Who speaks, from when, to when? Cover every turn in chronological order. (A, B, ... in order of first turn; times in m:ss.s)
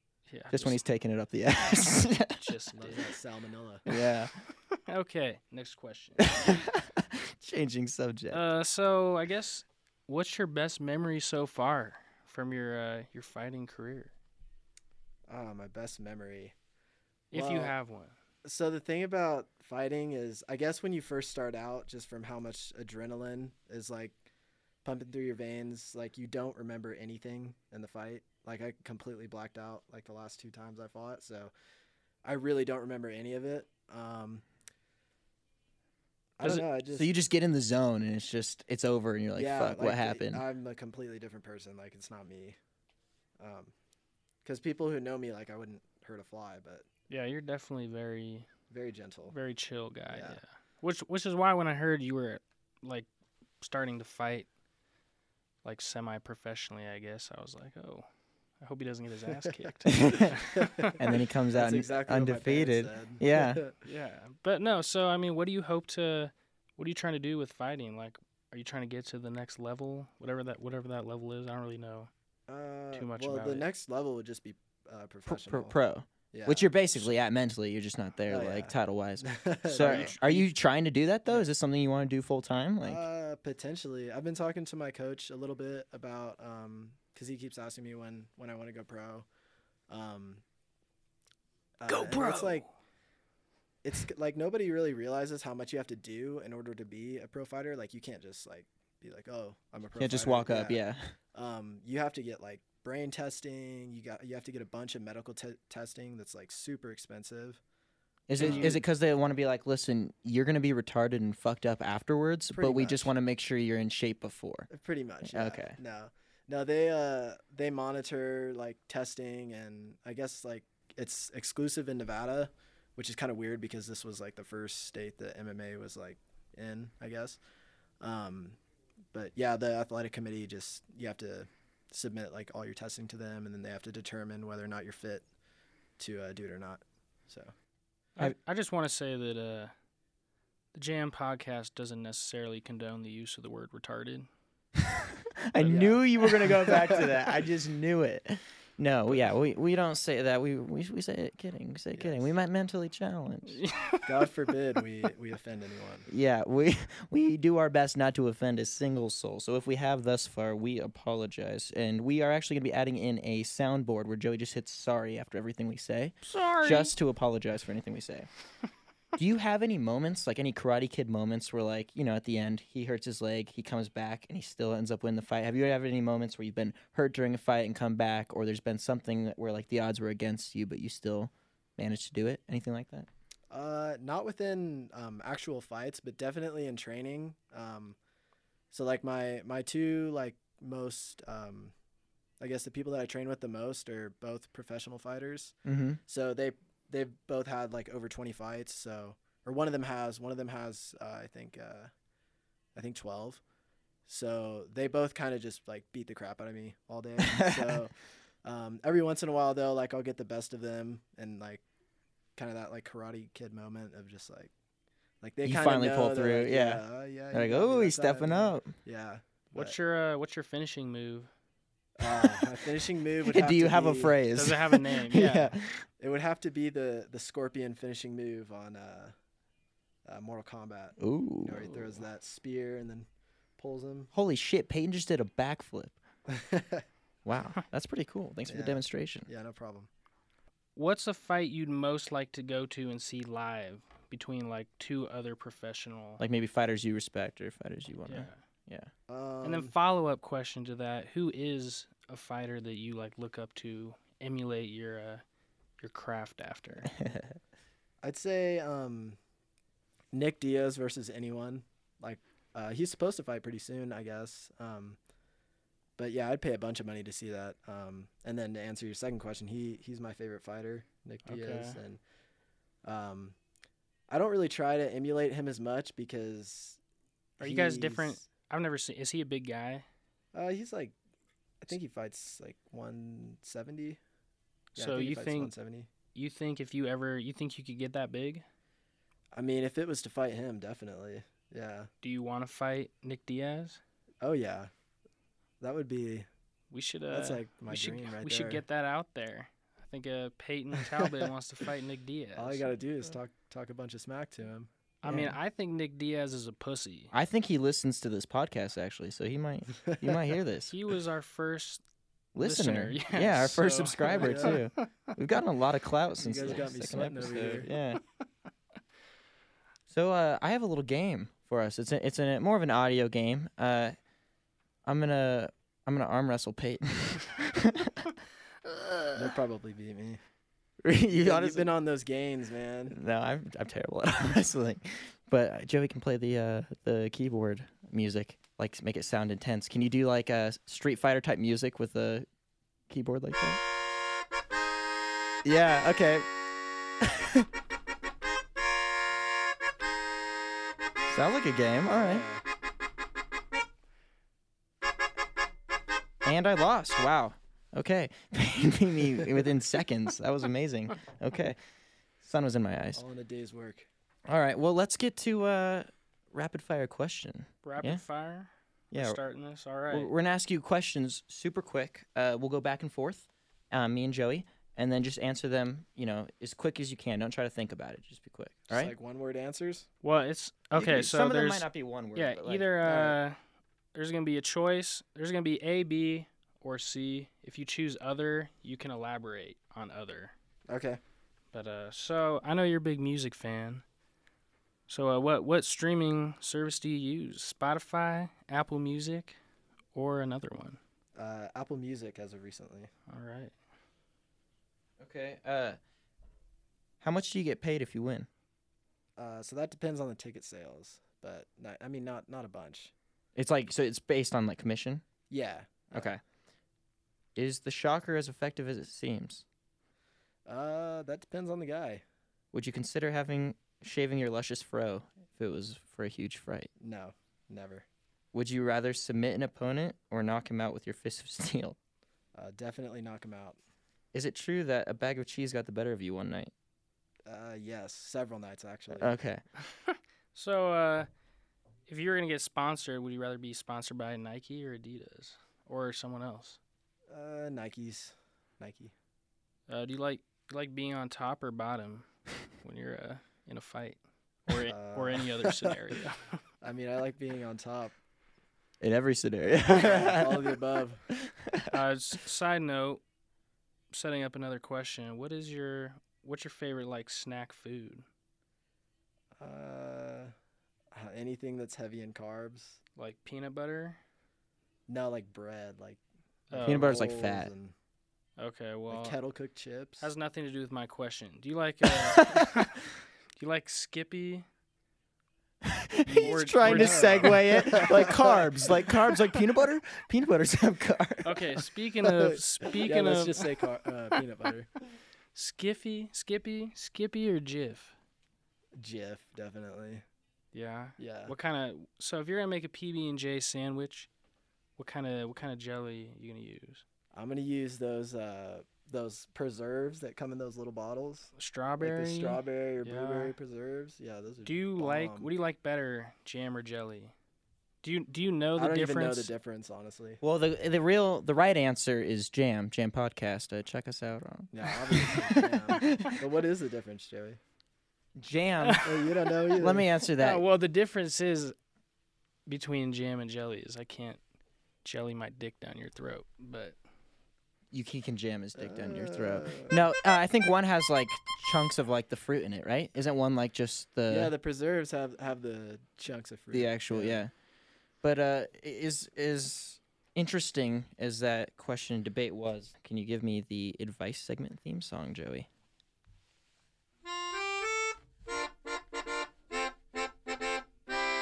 0:00.3-0:00.8 A
0:00.5-0:02.4 B
0:02.4-0:03.1 A
0:02.8-0:03.8 C
0:03.9-0:04.3 B
0:03.9-0:06.3 A
0:06.2-0:08.4 B
0:08.3-0:14.1 A
0:15.3-0:16.5 C
0:17.3-0:18.2 A
0:17.3-0:17.8 C
0:18.4-0:24.2 C
0:24.8-0:31.5 C
0:32.2-0:34.4 C
0:36.4-0:37.1 C
0:36.4-0:40.4 B
0:39.4-0:42.6 C
0:43.4-0:43.7 C
0:44.4-0:46.8 C
0:47.1-0:48.5 A
0:48.7-0:49.4 C
0:49.3-0:53.1 A
0:50.1-0:50.4 C
0:53.6-0:54.5 A
0:55.6-0:58.1 A
0:58.6-1:01.0 A
0:59.9-1:00.3 B
1:00.1-1:01.0 C
1:01.0-1:03.6 B
1:01.5-1:03.8 C
1:03.8-1:12.1 A
1:12.5-1:15.8 C
1:13.0-1:13.7 A
1:15.3-1:23.0 B
1:16.3-1:17.2 C
1:18.3-1:20.5 C
1:19.8-1:20.2 A
1:22.8-1:29.3 C
1:29.9-1:30.4 C
1:31.8-1:32.7 C
1:31.9-1:32.7 A
1:33.8-1:40.8 C
1:40.0-1:41.1 B
1:41.3-1:47.6 C
1:48.3-1:54.7 B
1:48.4-1:48.8 C
1:48.4-1:48.8 A
1:52.5-1:53.1 C
1:54.7-2:07.4 C
1:55.2-1:55.8 B
2:08.0-2:08.6 C
2:09.1-2:15.2 C
2:16.0-2:17.5 C
2:18.2-2:19.7 A
2:20.7-2:24.3 A
2:24.8-2:33.6 B
2:25.6-2:27.1 C
2:31.9-2:32.3 C
2:33.6-2:34.0 A
2:34.0-2:36.1 C
2:36.1-2:48.3 B
2:46.2-2:47.0 A
2:49.2-3:03.1 B
3:03.5-3:08.0 C
3:08.7-3:11.7 C
3:12.4-3:21.9 C
3:15.6-3:16.0 B
3:22.8-3:23.4 C
3:24.1-3:31.6 C
3:27.2-3:27.8 B
3:32.4-3:34.5 C
3:35.2-3:39.8 C
3:35.4-3:38.7 B
3:39.5-3:41.3 A
3:42.0-3:44.2 C
3:42.1-3:42.5 B
3:43.2-3:45.8 B
3:44.3-3:45.6 A
3:46.0-3:49.1 C
3:50.1-3:53.1 C
3:51.0-3:51.7 B
3:53.6-3:54.1 C
3:54.1-3:56.0 B
3:56.3-3:56.8 C
3:57.2-3:59.3 B
3:58.5-3:59.9 C
4:00.8-4:06.2 A
4:06.2-4:08.9 B
4:08.1-4:08.4 A
4:09.1-4:09.7 C
4:09.4-4:15.2 A
4:15.8-4:16.9 A
4:17.0-4:17.3 B
4:18.0-4:19.2 C
4:20.1-4:25.0 C
4:26.0-4:32.0 C
4:31.3-4:31.8 A
4:32.8-4:33.4 C
4:34.1-4:36.8 C
4:37.4-4:38.2 C
4:37.4-4:39.8 A
4:40.3-4:40.9 C
4:41.6-4:44.0 C
4:44.8-4:45.5 A
4:44.8-4:45.9 C
4:46.2-4:48.4 A
4:49.3-4:51.9 C
4:52.0-4:53.8 A
4:54.2-4:54.7 C
4:55.6-4:56.3 C
4:56.7-5:02.7 A
4:57.1-4:58.6 C
5:01.0-5:01.2 C
5:02.4-5:04.7 C
5:05.0-5:07.1 A
5:07.1-5:10.8 B
5:09.9-5:10.1 C
5:10.7-5:11.8 A
5:12.4-5:18.0 B
5:12.4-5:15.1 A
5:14.1-5:14.6 C
5:16.2-5:17.7 C
5:19.9-5:24.0 B
5:24.8-5:28.1 B
5:28.7-5:29.0 B
5:29.2-5:30.2 C
5:30.8-5:31.7 B
5:31.2-5:33.0 C
5:32.9-5:42.3 B
5:42.9-5:43.6 B
5:45.4-5:46.3 B
5:47.0-5:47.5 B
5:51.1-5:52.2 B
5:51.9-5:52.4 C
5:56.2-6:01.6 B
6:02.2-6:03.0 B
6:03.0-6:03.9 C
6:04.3-6:08.0 B
6:07.6-6:10.1 A
6:08.9-6:09.2 B
6:09.9-6:18.9 B
6:18.7-6:19.9 C
6:20.0-6:23.4 A
6:20.8-6:22.7 B
6:22.8-6:23.2 C
6:23.9-6:30.3 A
6:30.7-6:31.0 C
6:31.5-6:33.8 A
6:34.9-6:39.4 A
6:39.9-6:40.8 A
6:41.2-6:42.9 C
6:43.1-6:43.6 A
6:45.0-6:45.8 B
6:47.0-6:48.3 B
6:49.2-6:52.9 C
6:53.4-6:55.0 B
6:55.3-6:56.1 C
6:55.9-6:56.2 B
6:57.4-6:59.4 B
7:00.5-7:02.0 C
7:02.5-7:06.7 B
7:06.8-7:07.9 C
7:08.3-7:11.8 B
7:12.4-7:13.6 C
7:14.1-7:16.5 B
7:17.3-7:19.2 C
7:19.0-7:19.4 B
7:19.7-7:21.1 A
7:21.9-7:26.6 A
7:27.1-7:28.9 C
7:29.7-7:32.1 A
7:32.6-7:36.4 A
7:34.6-7:35.8 C
7:36.6-7:38.0 C
7:38.8-7:40.5 B
7:39.6-7:41.1 C
7:41.1-7:41.8 B
7:41.7-7:43.0 A
7:43.9-7:48.1 A
7:49.4-7:50.3 C
7:50.9-7:52.8 C
7:53.0-7:54.0 A
7:54.9-7:57.7 C
7:56.5-7:57.0 A
7:56.6-7:57.5 B
7:58.4-7:59.2 A
7:58.9-8:00.1 C
8:00.0-8:04.5 A
8:01.9-8:02.5 B
8:05.6-8:11.7 B
8:06.1-8:08.0 A
8:06.6-8:08.5 C
8:11.2-8:13.4 A
8:12.8-8:14.7 C
8:15.4-8:17.9 A
8:18.8-8:20.0 C
8:20.5-8:24.1 A
8:21.0-8:21.4 C
8:24.8-8:26.8 A
8:27.1-8:35.3 C
8:31.4-8:33.4 A
8:34.4-8:37.1 A
8:37.8-8:39.3 A
8:38.6-8:40.2 C
8:40.2-8:46.2 B
8:44.5-8:47.4 C
8:48.2-8:48.9 B
8:48.6-8:48.9 A
8:48.8-8:49.9 C
8:49.6-8:50.4 B
8:50.1-8:51.6 A
8:52.5-8:54.2 A
8:54.8-8:56.8 A
8:57.7-9:04.3 B
8:58.6-8:59.8 C
9:04.1-9:07.2 C
9:06.5-9:07.3 B
9:08.0-9:15.5 B